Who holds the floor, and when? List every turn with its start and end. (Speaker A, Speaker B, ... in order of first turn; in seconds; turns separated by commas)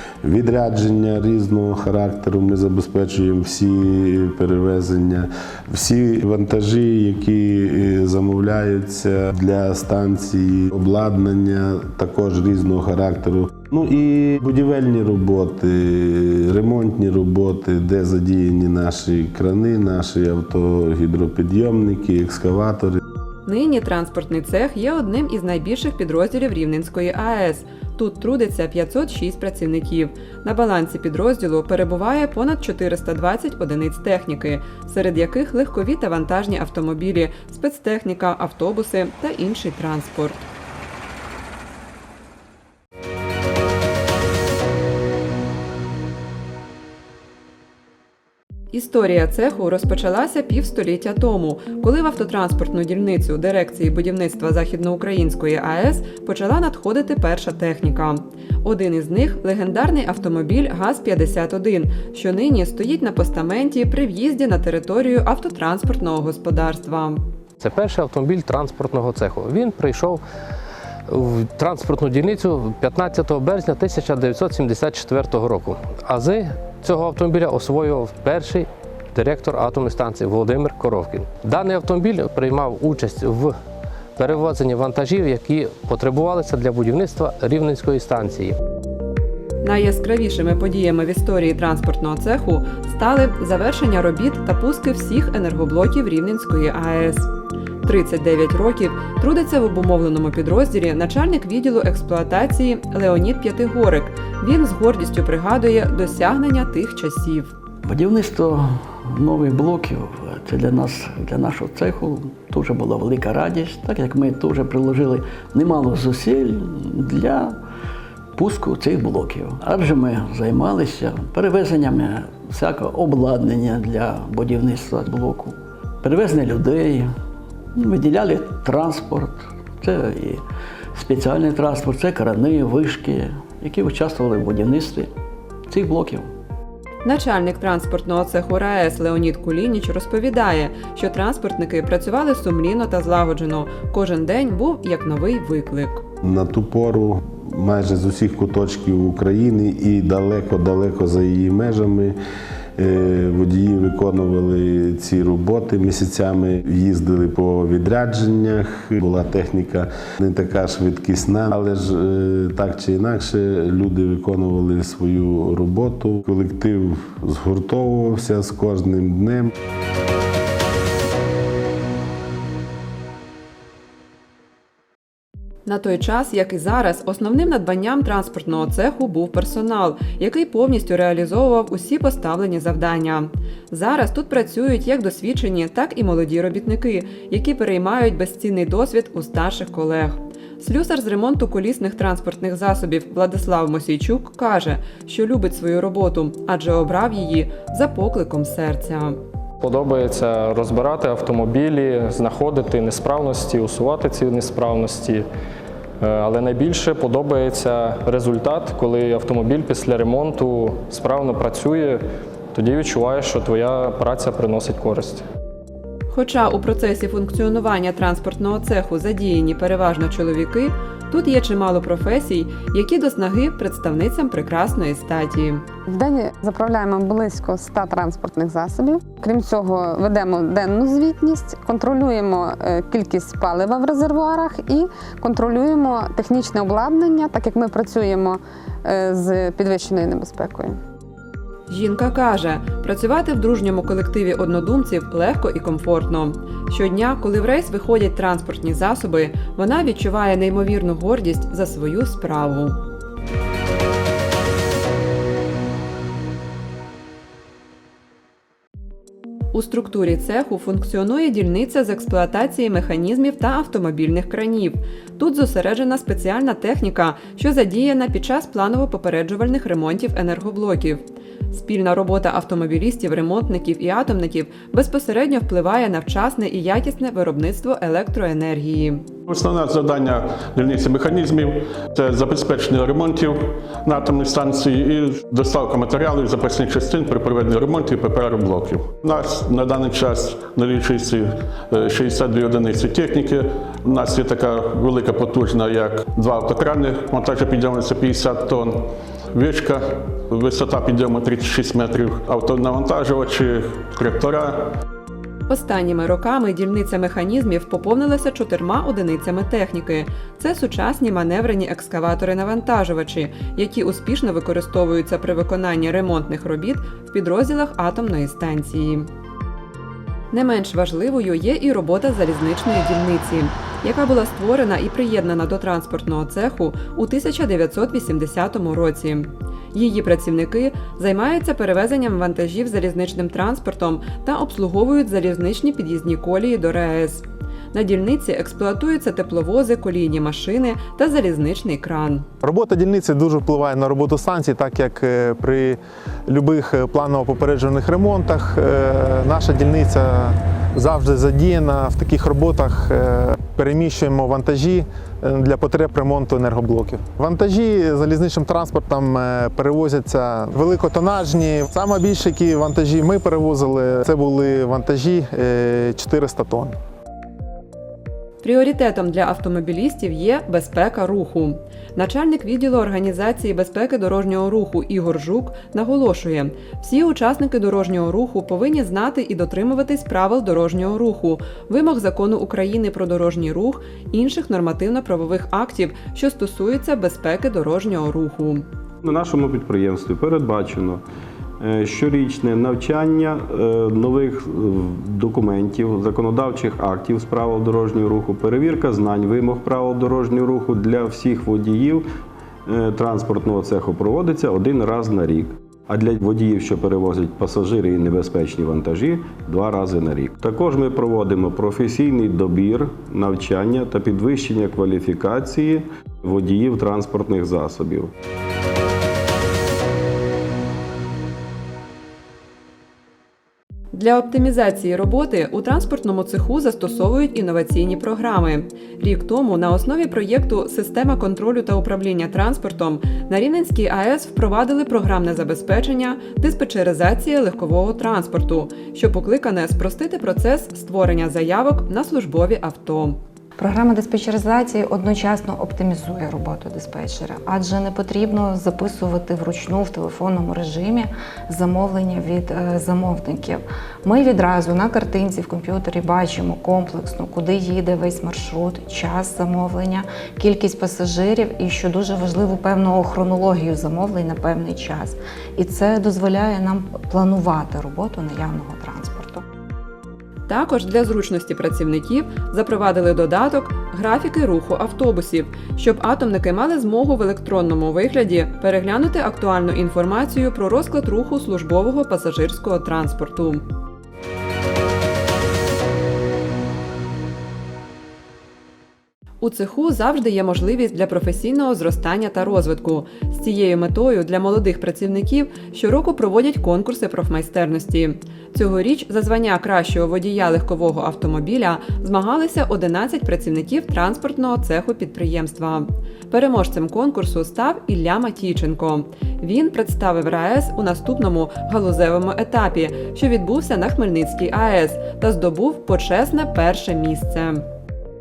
Speaker A: 0.2-23.0, Speaker B: 23.4-40.4, Speaker B: 48.7-67.2, Speaker C: 67.6-70.2, Speaker C: 71.1-83.5, Speaker C: 84.2-88.5, Speaker B: 89.6-97.3, Speaker B: 97.8-107.5, Speaker D: 107.8-117.5, Speaker D: 118.3-127.1, Speaker D: 127.7-130.4, Speaker D: 130.9-135.1, Speaker D: 135.7-136.3, Speaker B: 137.0-146.0, Speaker A: 146.2-152.2, Speaker A: 152.8-169.5, Speaker B: 175.7-199.2, Speaker E: 199.6-205.2, Speaker E: 206.0-212.0, Speaker E: 212.5-215.2, Speaker B: 216.1-225.6, Speaker F: 225.9-240.7, Speaker B: 241.7-252.8, Speaker B: 259.5-279.1, Speaker G: 279.3-304.7, Speaker B: 305.5-319.1, Speaker B: 320.3-342.3, Speaker H: 342.4-366.8, Speaker B: 368.4-388.6, Speaker I: 389.0-391.0, Speaker I: 391.6-402.0, Speaker I: 402.7-418.1, Speaker B: 423.9-443.2, Speaker J: 443.6-469.4, Speaker B: 470.5-483.6, Speaker B: 489.4-517.6